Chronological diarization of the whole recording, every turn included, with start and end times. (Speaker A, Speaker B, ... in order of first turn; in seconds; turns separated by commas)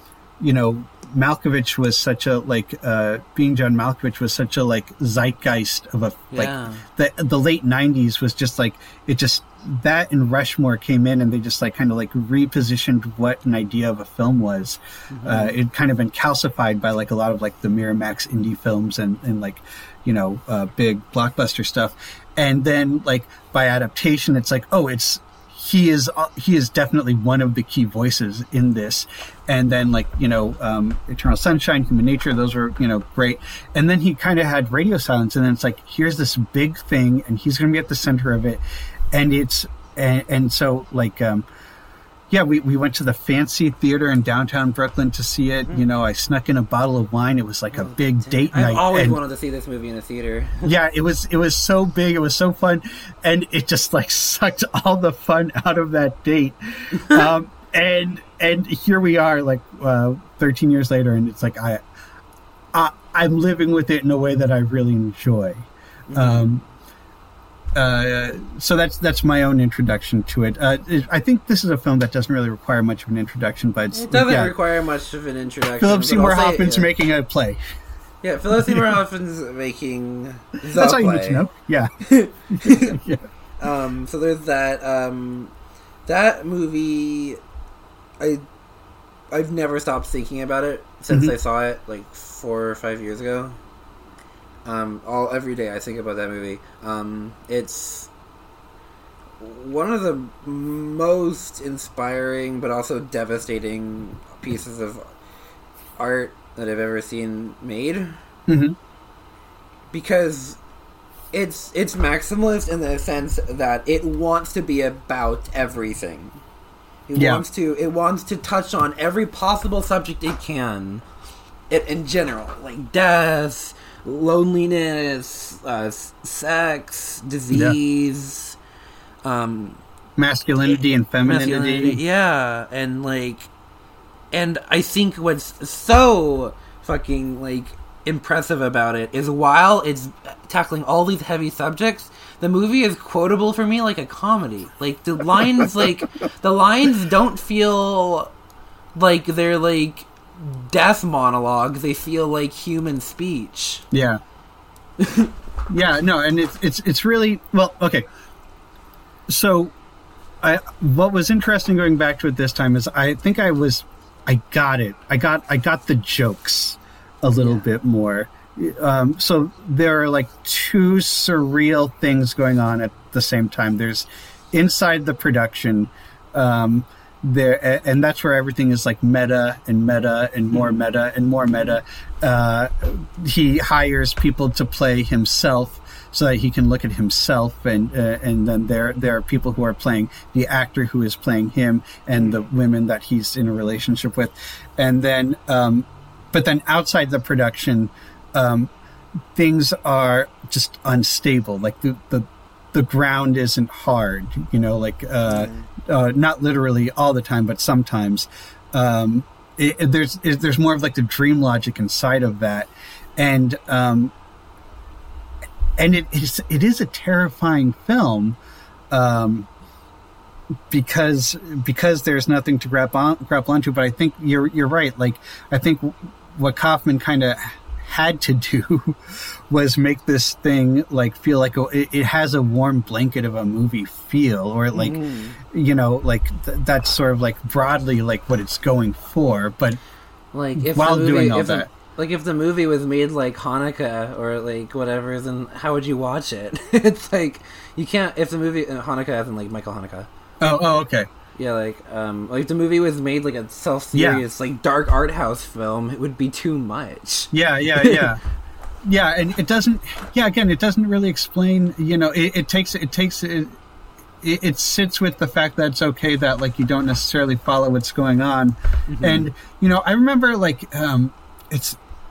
Speaker A: 0.4-41.5, Speaker B: 6.3-6.8, Speaker B: 15.1-15.6, Speaker A: 42.3-49.2, Speaker B: 47.7-50.7, Speaker A: 50.6-61.8, Speaker B: 57.0-57.3, Speaker A: 62.7-66.6, Speaker B: 66.1-66.6, Speaker A: 67.8-74.5, Speaker B: 73.9-76.9, Speaker A: 75.8-77.6, Speaker B: 78.2-81.5, Speaker A: 78.5-78.9, Speaker A: 80.7-81.9, Speaker B: 82.0-83.0, Speaker A: 82.5-83.2, Speaker B: 83.6-85.5, Speaker B: 86.1-87.4, Speaker B: 89.3-93.6, Speaker B: 94.7-98.1, Speaker B: 99.4-105.1, Speaker B: 106.0-108.2, Speaker A: 108.5-108.8, Speaker B: 109.9-110.6, Speaker B: 111.3-116.4, Speaker B: 117.1-121.0, Speaker A: 117.2-117.4, Speaker B: 121.7-128.6, Speaker B: 129.2-129.8, Speaker A: 130.2-132.0, Speaker B: 131.2-133.5, Speaker B: 134.3-148.3, Speaker A: 145.3-145.9, Speaker B: 149.0-153.8, Speaker A: 153.9-154.2, Speaker B: 155.0-155.3, Speaker A: 155.7-158.0, Speaker A: 159.3-159.7, Speaker A: 160.4-198.7, Speaker B: 167.4-167.7, Speaker A: 199.3-214.1, Speaker B: 205.3-205.6, Speaker A: 215.8-218.4, Speaker A: 218.9-219.5, Speaker A: 220.7-239.8, Speaker B: 234.7-235.4, Speaker B: 240.3-250.1, Speaker A: 240.6-241.7, Speaker A: 250.4-251.1, Speaker B: 251.4-258.1, Speaker A: 253.9-254.2, Speaker A: 257.3-258.2, Speaker A: 258.9-263.6, Speaker A: 264.2-271.8, Speaker B: 268.9-269.3